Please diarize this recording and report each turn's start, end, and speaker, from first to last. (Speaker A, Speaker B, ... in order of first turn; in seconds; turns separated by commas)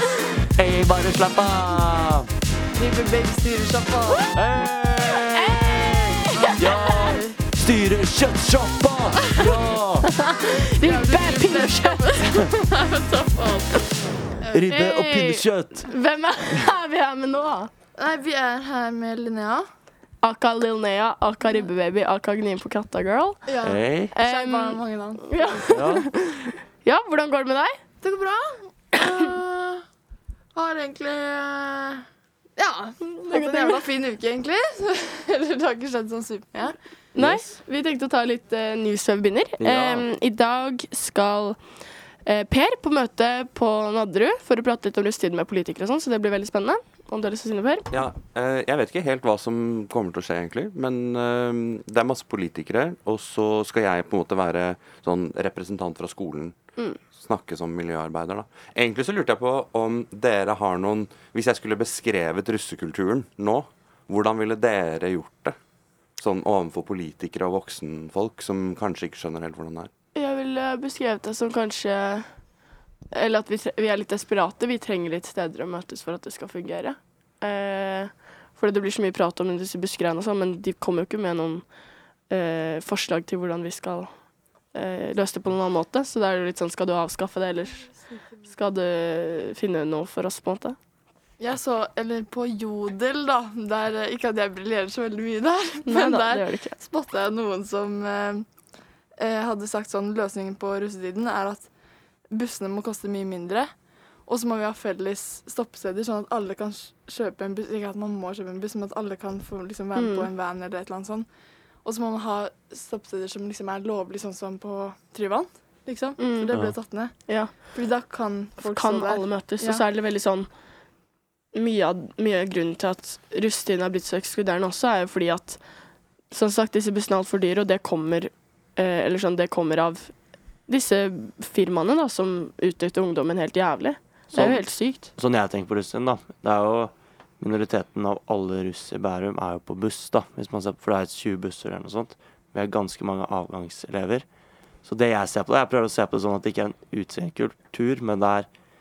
Speaker A: 0.6-2.3, Speaker B: 2.7-4.4, Speaker A: 4.3-10.1, Speaker C: 5.2-7.1, Speaker B: 6.3-7.4, Speaker C: 10.1-12.5, Speaker B: 10.8-14.8, Speaker A: 14.5-15.9, Speaker C: 14.7-17.7, Speaker B: 17.9-19.7, Speaker C: 20.2-23.4, Speaker B: 23.5-25.7, Speaker A: 23.6-24.1, Speaker C: 24.1-27.8, Speaker A: 25.7-26.1, Speaker B: 28.0-29.8, Speaker B: 30.6-32.0, Speaker B: 32.6-36.8, Speaker C: 33.1-33.9, Speaker C: 37.1-41.6, Speaker A: 37.2-37.5, Speaker A: 39.6-40.1, Speaker C: 42.3-47.9, Speaker D: 47.9-56.6, Speaker D: 57.1-65.6, Speaker D: 66.2-69.9, Speaker C: 70.2-72.3, Speaker C: 73.1-81.6, Speaker C: 82.3-84.1, Speaker C: 84.7-87.9, Speaker C: 88.5-90.8, Speaker B: 91.4-98.5, Speaker C: 95.8-96.8, Speaker B: 99.2-101.7, Speaker B: 102.3-103.7, Speaker B: 104.3-111.3, Speaker C: 110.0-110.3, Speaker B: 111.8-117.1, Speaker C: 116.2-116.6, Speaker B: 117.7-119.8, Speaker C: 118.6-120.5, Speaker C: 121.5-125.6, Speaker C: 126.3-130.1, Speaker C: 130.7-135.1, Speaker A: 134.3-134.6, Speaker A: 135.2-144.2, Speaker A: 144.8-148.5